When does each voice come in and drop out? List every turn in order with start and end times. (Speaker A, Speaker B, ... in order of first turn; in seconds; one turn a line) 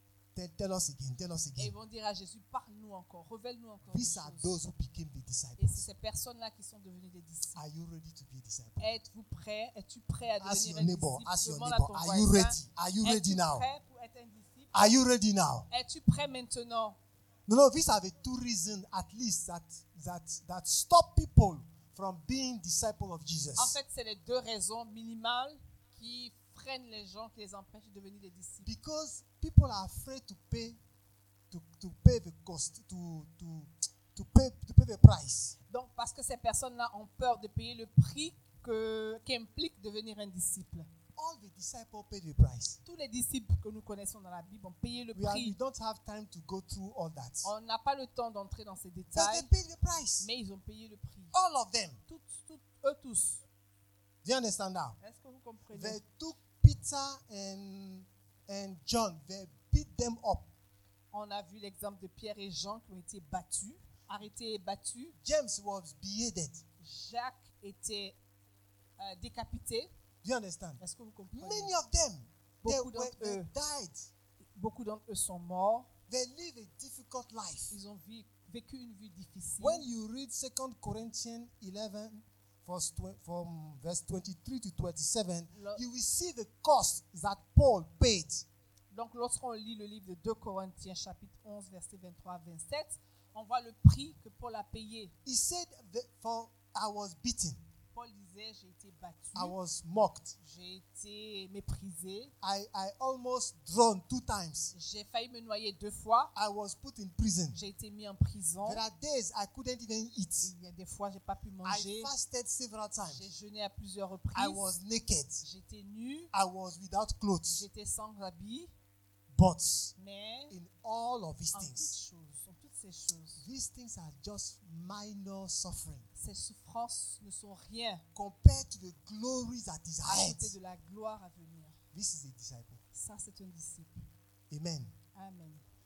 Speaker A: 0.3-1.7
Speaker B: 1.6-4.5
Speaker A: 3.9-5.9
Speaker B: 5.6-7.6
Speaker A: 7.5-8.9
Speaker B: 8.8-14.8
Speaker A: 10.4-13.7
Speaker A: 14.7-15.7
Speaker B: 15.7-17.0
Speaker A: 17.5-23.8
Speaker B: 23.6-28.7
Speaker A: 28.6-30.8
Speaker A: 31.5-35.5
Speaker B: 35.7-40.9
Speaker A: 41.1-42.8
Speaker B: 42.8-45.5
Speaker A: 45.1-47.5
Speaker B: 47.4-49.5
Speaker A: 49.1-50.3
Speaker B: 50.2-51.3
Speaker A: 51.3-52.0
Speaker B: 52.1-53.4
Speaker A: 54.2-55.0
Speaker B: 55.0-56.0
Speaker A: 55.7-60.5
Speaker B: 61.1-65.2
Speaker A: 65.2-66.6
Speaker B: 66.8-68.2
Speaker B: 69.0-69.9
Speaker A: 70.2-70.8
Speaker B: 70.8-71.7
Speaker A: 71.3-74.1
Speaker B: 72.6-73.5
Speaker B: 74.5-75.9
Speaker A: 76.1-77.8
Speaker B: 77.7-79.9
Speaker A: 79.6-88.5
Speaker B: 85.5-85.8
Speaker B: 88.9-95.1
Speaker A: 95.2-97.6
Speaker B: 97.9-99.5
Speaker A: 99.3-100.3
Speaker B: 100.4-102.3
Speaker A: 102.4-104.7
Speaker B: 104.7-106.3
Speaker A: 106.3-107.6
Speaker B: 107.5-108.8
Speaker A: 108.6-110.5
Speaker B: 110.4-112.1
Speaker A: 111.6-113.2
Speaker B: 113.0-114.7
Speaker A: 114.3-115.4
Speaker B: 115.4-116.3
Speaker A: 116.3-117.7
Speaker B: 117.5-118.7
Speaker A: 119.3-119.9
Speaker B: 120.0-120.5
Speaker A: 120.5-122.0
Speaker B: 121.5-123.4
Speaker A: 123.4-126.0
Speaker B: 126.1-128.0
Speaker A: 128.1-130.5
Speaker B: 130.0-131.8
Speaker A: 131.9-132.8
Speaker B: 132.9-134.1
Speaker A: 134.5-134.9
Speaker B: 135.1-135.6